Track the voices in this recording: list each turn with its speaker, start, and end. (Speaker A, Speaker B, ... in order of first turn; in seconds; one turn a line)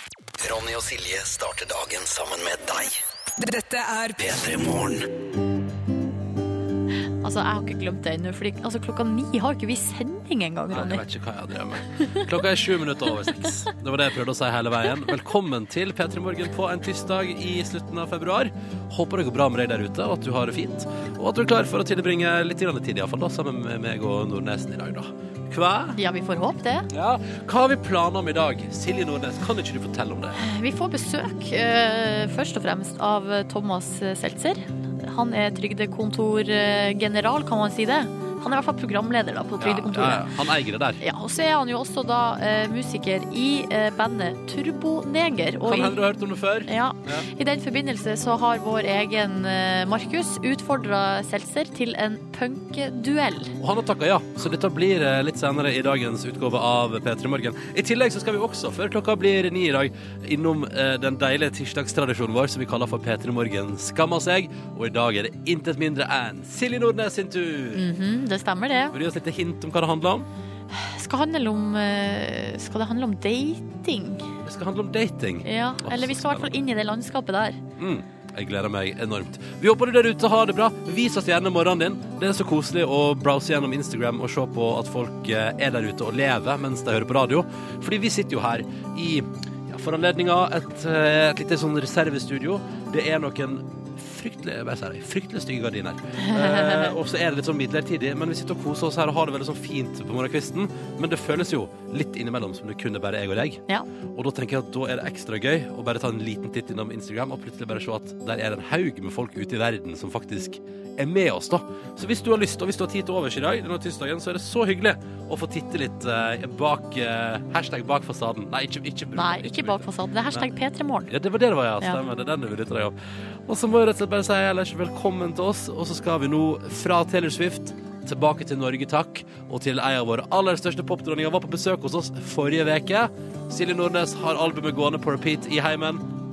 Speaker A: 0.4-5.1
Speaker B: 7.2-11.1
Speaker C: 10.7-26.0
Speaker B: 12.0-12.3
Speaker B: 26.0-26.9
Speaker C: 26.9-30.4
Speaker B: 30.4-40.3
Speaker C: 39.6-41.0
Speaker B: 41.0-46.0
Speaker C: 45.6-47.3
Speaker B: 46.7-53.6
Speaker C: 53.6-67.9
Speaker B: 67.7-69.0
Speaker C: 68.9-70.3
Speaker B: 70.7-74.3
Speaker C: 74.5-76.5
Speaker B: 75.4-77.6
Speaker C: 77.8-120.5
Speaker B: 96.2-96.9
Speaker B: 119.2-121.1
Speaker C: 121.1-136.1